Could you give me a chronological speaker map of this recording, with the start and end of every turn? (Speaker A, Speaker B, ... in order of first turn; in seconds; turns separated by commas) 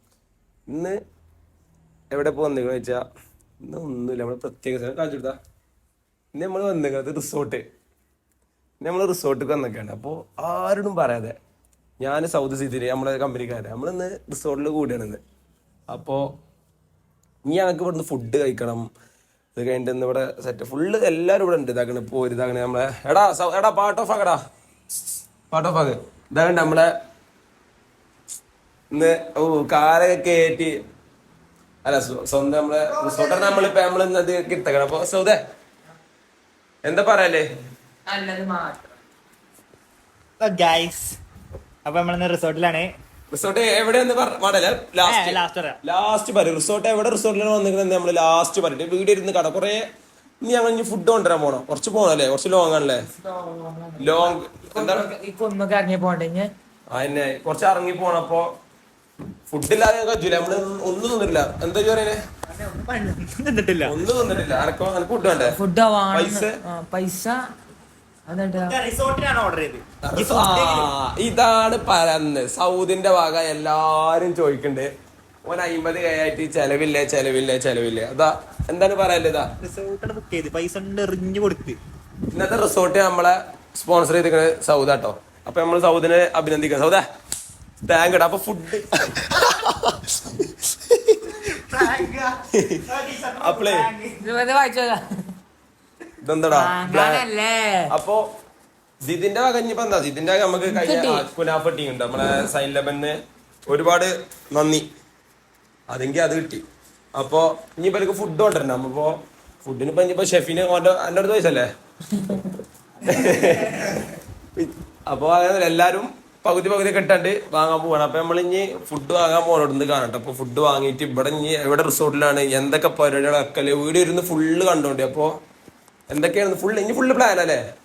Speaker A: 0.7-1.0, Speaker A: 2.1-3.0, Speaker A: 3.6-5.4, Speaker A: 6.3-7.6, Speaker A: 8.8-11.3, Speaker A: 12.0-15.2, Speaker A: 15.9-16.2, Speaker A: 17.5-18.9, Speaker A: 19.6-24.4, Speaker A: 25.5-26.9, Speaker A: 28.9-30.7, Speaker A: 31.8-35.4, Speaker B: 32.9-33.7, Speaker A: 36.8-37.4, Speaker C: 38.0-39.0, Speaker B: 40.4-41.1, Speaker B: 41.9-42.9, Speaker A: 43.3-49.9, Speaker B: 45.0-45.8, Speaker A: 50.4-53.1, Speaker C: 53.2-56.5, Speaker A: 54.0-55.1, Speaker A: 56.9-58.5, Speaker A: 59.5-62.2, Speaker B: 62.5-64.0, Speaker A: 63.8-65.6, Speaker C: 65.2-67.5, Speaker A: 66.1-66.6, Speaker C: 68.3-68.8, Speaker B: 68.6-70.9, Speaker A: 70.0-74.9, Speaker A: 75.4-79.5, Speaker B: 79.6-81.8, Speaker A: 82.3-87.0, Speaker A: 87.8-91.3, Speaker B: 91.2-94.3, Speaker A: 92.5-92.8, Speaker A: 93.4-93.9, Speaker C: 94.2-95.3, Speaker A: 96.2-97.2, Speaker C: 96.5-97.9, Speaker A: 97.9-98.2, Speaker A: 99.0-104.8, Speaker C: 100.7-101.3, Speaker A: 105.9-111.7, Speaker C: 112.1-112.5, Speaker A: 113.0-125.3, Speaker B: 113.1-113.9, Speaker A: 126.1-127.6